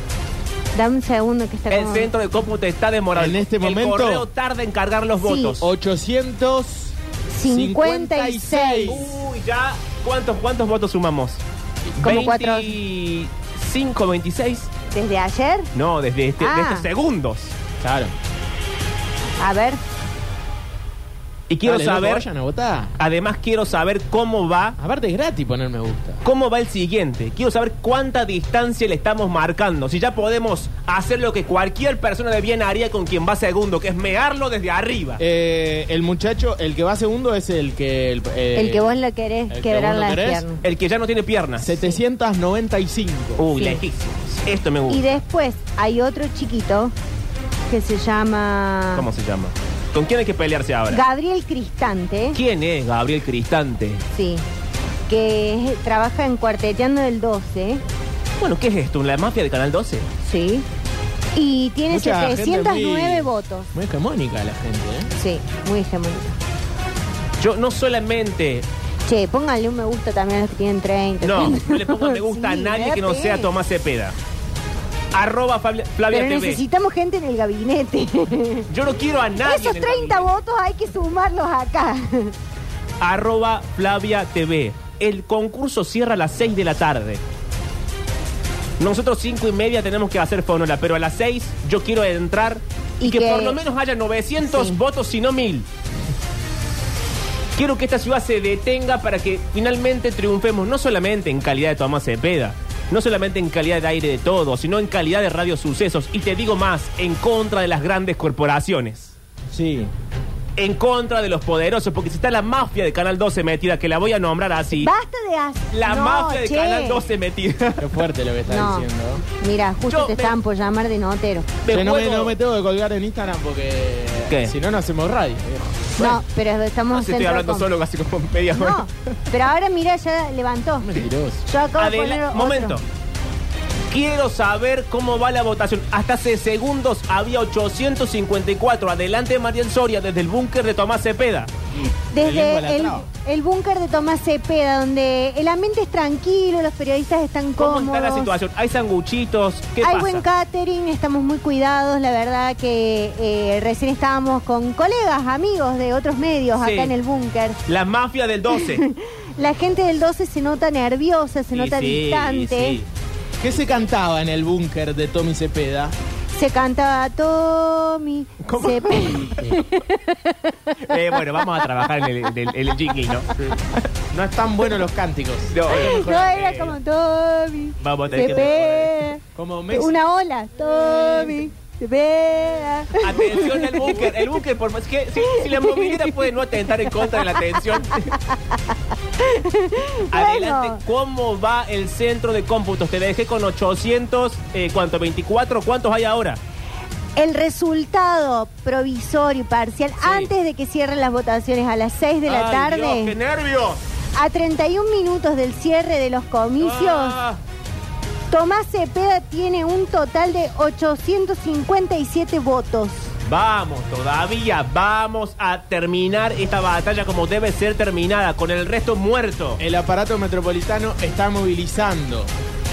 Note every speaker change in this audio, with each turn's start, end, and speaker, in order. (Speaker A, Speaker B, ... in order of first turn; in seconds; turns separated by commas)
Speaker A: 0.7-2.1, Speaker B: 1.7-5.7, Speaker C: 3.1-4.2, Speaker A: 5.2-5.5, Speaker C: 5.6-9.0, Speaker A: 7.3-9.0, Speaker B: 8.9-11.4, Speaker B: 12.0-14.7, Speaker A: 12.0-12.7, Speaker A: 14.9-15.7, Speaker B: 15.7-17.5, Speaker A: 16.4-16.9, Speaker C: 17.8-18.1, Speaker A: 19.4-19.8, Speaker B: 21.5-22.2, Speaker C: 21.6-22.9, Speaker B: 23.0-24.8, Speaker C: 24.8-26.2, Speaker B: 26.2-35.2, Speaker C: 35.2-39.0, Speaker A: 38.5-40.6, Speaker C: 39.5-40.4, Speaker B: 40.6-41.7, Speaker C: 41.6-43.4, Speaker B: 43.4-45.0, Speaker A: 43.6-43.8, Speaker A: 44.9-46.9, Speaker A: 47.7-49.0, Speaker B: 48.9-51.0, Speaker A: 50.9-52.4, Speaker B: 52.3-54.0, Speaker A: 54.1-54.4, Speaker A: 55.1-57.8, Speaker B: 58.4-60.1, Speaker A: 60.2-60.6, Speaker A: 61.3-63.7, Speaker C: 61.9-65.1, Speaker A: 65.2-66.3, Speaker B: 67.4-68.7, Speaker A: 69.0-73.5, Speaker B: 71.2-74.1, Speaker B: 75.1-76.6, Speaker A: 76.1-78.7, Speaker B: 78.7-80.3, Speaker A: 79.4-82.3, Speaker B: 83.0-87.2, Speaker B: 88.8-95.7, Speaker A: 93.0-93.6, Speaker A: 94.4-94.8, Speaker B: 97.5-109.1, Speaker C: 109.5-109.9, Speaker B: 110.6-114.9, Speaker A: 114.8-117.0, Speaker B: 115.7-117.8, Speaker C: 117.8-119.2, Speaker A: 118.5-118.9, Speaker A: 119.4-121.5, Speaker B: 119.9-120.4, Speaker B: 121.6-122.3, Speaker C: 121.7-125.9, Speaker A: 126.0-127.7, Speaker B: 126.9-128.8, Speaker A: 128.5-130.9, Speaker C: 130.8-131.4, Speaker A: 131.4-132.8, Speaker B: 131.8-132.8, Speaker B: 133.9-141.5, Speaker A: 142.1-148.3, Speaker C: 142.2-143.1, Speaker B: 147.6-150.2, Speaker A: 149.8-157.6, Speaker B: 156.6-156.9, Speaker B: 157.7-158.8, Speaker A: 158.5-162.8, Speaker B: 161.5-162.9, Speaker C: 163.4-165.9, Speaker A: 166.3-170.7, Speaker B: 168.4-169.6, Speaker B: 170.9-173.8, Speaker C: 174.1-176.8, Speaker B: 175.5-176.0, Speaker A: 175.7-184.1, Speaker B: 177.8-178.9, Speaker C: 178.1-178.6, Speaker C: 179.3-179.9, Speaker B: 183.0-188.1, Speaker A: 185.3-186.1, Speaker A: 189.2-190.8, Speaker B: 190.1-196.4, Speaker A: 197.2-203.1, Speaker B: 200.0-200.3, Speaker B: 202.3-203.8, Speaker A: 204.1-207.2, Speaker B: 206.6-207.4, Speaker A: 208.3-213.1, Speaker B: 213.2-219.6, Speaker C: 219.6-222.3